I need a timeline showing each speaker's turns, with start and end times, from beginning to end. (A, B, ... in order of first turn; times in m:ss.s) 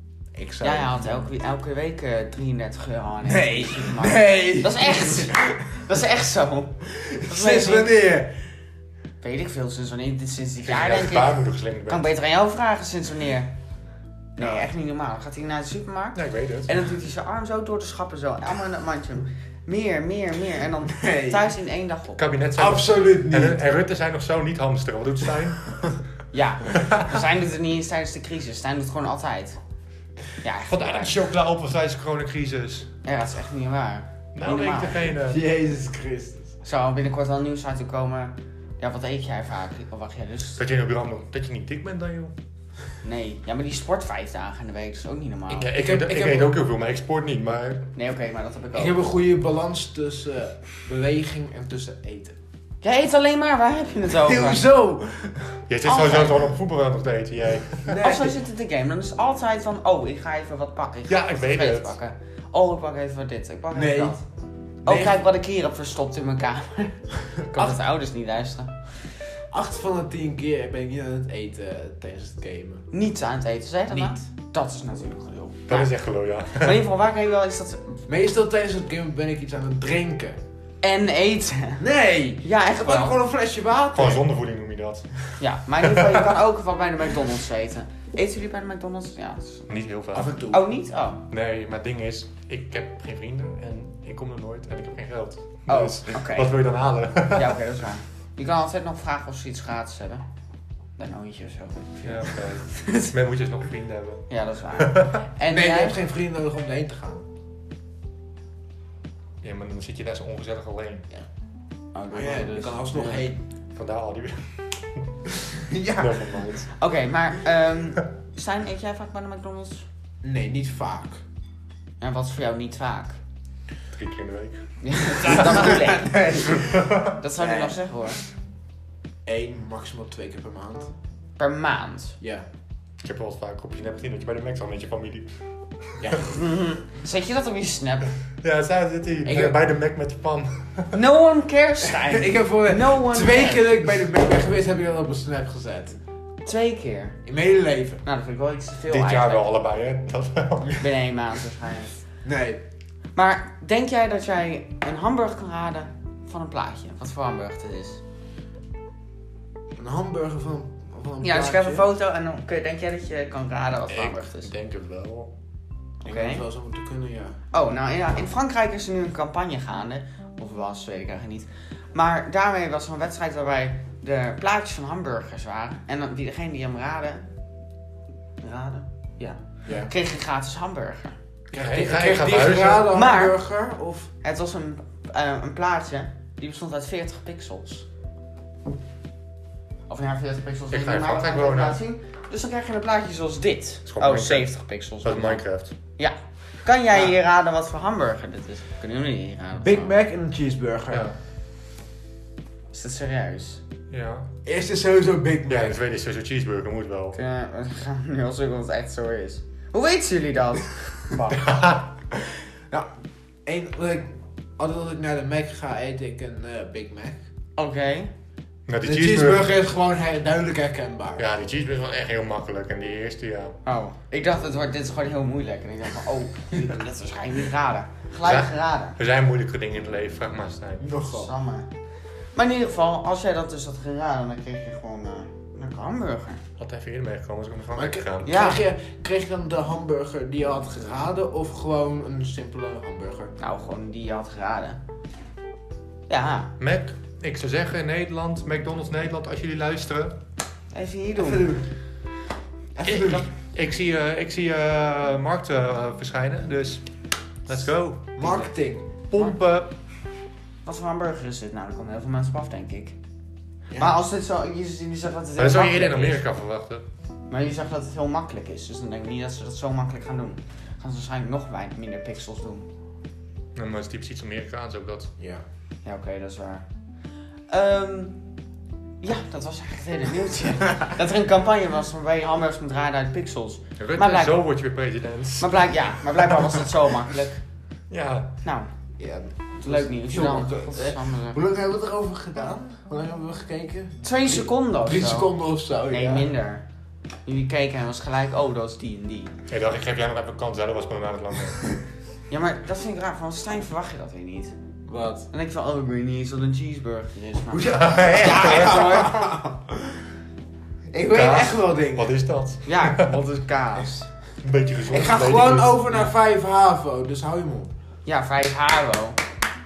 0:00.3-0:01.3 A
0:00.6-0:07.9 B
0:03.2-0:05.6 A
0:06.8-0:08.3 A
0:09.2-0:13.5 B
0:10.6-0:12.1 C
0:14.4-0:22.2 B
0:16.1-0:16.8 C
0:20.9-0:21.5 A
0:22.2-0:26.0 C
0:22.6-0:23.6 A
0:26.3-0:29.6 B
0:26.7-0:27.2 C
0:30.4-0:31.2 B
0:30.7-0:32.9 C
0:33.0-0:35.1 B
0:34.3-0:35.4 C
0:35.2-0:36.5 A
0:36.6-0:40.6 B
0:40.6-0:42.3 C
0:43.0-0:45.7 B
0:45.5-0:47.9 C
0:45.7-0:46.6 A
0:47.9-0:49.0 B
0:48.7-0:52.4 A
0:52.8-0:54.6 B
0:54.1-0:55.6 A
0:55.7-0:58.0 C
0:55.8-0:56.5 B
0:57.8-0:58.4 A
0:58.0-1:04.2 B
1:01.1-1:02.0 C
1:03.7-1:04.2 A
1:04.8-1:05.2 A
1:04.8-1:08.8 B
1:09.5-1:12.9 A
1:12.9-1:15.9 B
1:13.9-1:14.2 A
1:15.7-1:16.8 C
1:16.5-1:18.0 B
1:18.1-1:20.4 A
1:20.8-1:21.8 B
1:21.8-1:24.2 A
1:22.4-1:23.2 B
1:23.9-1:25.3 C
1:25.4-1:29.6 B
1:25.8-1:26.2 C
1:29.7-1:30.4 C
1:30.1-1:30.7 A
1:30.5-1:31.2 B
1:31.3-1:37.6 C
1:35.7-1:36.5 B
1:37.3-1:40.2 B
1:41.0-1:43.1 B
1:42.0-1:45.2 C
1:44.3-1:46.0 B
1:45.5-1:47.3 A
1:49.4-1:51.0 C
1:51.9-1:53.3 B
1:52.1-1:53.4 A
1:53.7-1:56.7 C
1:55.6-1:56.6 A
1:56.7-1:59.8 B
2:00.2-2:01.2 A
2:02.0-2:03.2 B
2:03.9-2:05.7 C
2:04.8-2:08.2 B
2:05.3-2:07.8 A
2:06.7-2:07.1 C
2:09.2-2:10.9 A
2:11.4-2:12.2 B
2:12.2-2:12.4 A
2:13.0-2:16.2 C
2:16.0-2:16.3 A
2:16.3-2:18.1 B
2:18.4-2:20.9 C
2:19.2-2:19.6 B
2:20.9-2:23.9 B
2:22.0-2:26.0 A
2:26.4-2:27.2 B
2:27.2-2:28.0 A
2:28.0-2:29.4 B
2:28.9-2:30.8 C
2:30.8-2:32.0 B
2:32.2-2:32.6 A
2:33.1-2:38.0 B
2:39.8-2:41.9 A
2:41.2-2:44.5 B
2:43.9-2:45.3 C
2:46.0-2:47.4 A
2:46.0-2:46.4 B
2:47.5-2:57.3 B
2:58.4-3:01.2 B
2:59.6-2:59.9 A
3:01.5-3:04.1 A
3:01.5-3:02.9 C
3:02.9-3:03.4 B
3:04.2-3:07.8 B
3:09.9-3:15.4 B
3:10.7-3:11.8 C
3:13.9-3:15.7 C
3:16.0-3:19.9 B
3:19.6-3:21.1 A
3:20.9-3:21.2 C
3:22.7-3:23.6 B
3:23.9-3:24.3 C
3:24.4-3:25.8 A
3:25.5-3:27.2 C
3:27.1-3:31.4 B
3:31.3-3:31.9 C
3:33.4-3:37.2 A
3:37.6-3:38.1 B
3:38.7-3:39.6 C
3:38.8-3:41.2 A
3:41.2-3:43.6 C
3:43.6-3:49.0 B
3:48.2-3:50.9 C
3:50.8-3:51.3 A
3:51.0-3:51.7 B
3:52.3-3:56.4 B
3:56.6-3:58.3 C
3:57.7-4:03.3 A
3:58.2-3:58.6 B
4:03.4-4:04.8 B
4:06.1-4:06.5 B
4:06.6-4:10.2 C
4:10.7-4:11.6 B
4:11.2-4:11.6 A
4:12.7-4:13.2 A
4:12.8-4:16.8 C
4:17.5-4:18.1 C
4:18.1-4:18.9 A
4:19.1-4:19.7 C
4:20.6-4:23.0 B
4:23.8-4:26.2 B
4:25.4-4:26.8 C
4:27.3-4:32.7 B
4:33.6-4:35.1 C
4:35.2-4:35.4 A
4:35.8-4:36.6 B
4:37.5-4:38.2 B
4:39.0-4:44.4 B
4:43.8-4:45.5 C
4:45.4-4:47.4 B
4:47.9-4:48.3 C
4:48.4-4:48.7 B
4:49.0-4:56.3 A
4:49.6-4:51.4 B
4:54.0-4:55.3 B
4:55.9-4:56.6 B
4:57.2-4:59.3 B
4:59.5-5:01.7 C
5:02.3-5:04.6 B
5:04.9-5:05.3 A
5:05.3-5:09.6 B
5:07.4-5:09.4 A
5:07.7-5:09.0 C
5:10.9-5:12.1 A
5:11.1-5:13.2 C
5:12.6-5:14.1 B
5:14.4-5:15.8 C
5:14.9-5:17.7 A
5:18.0-5:19.2 B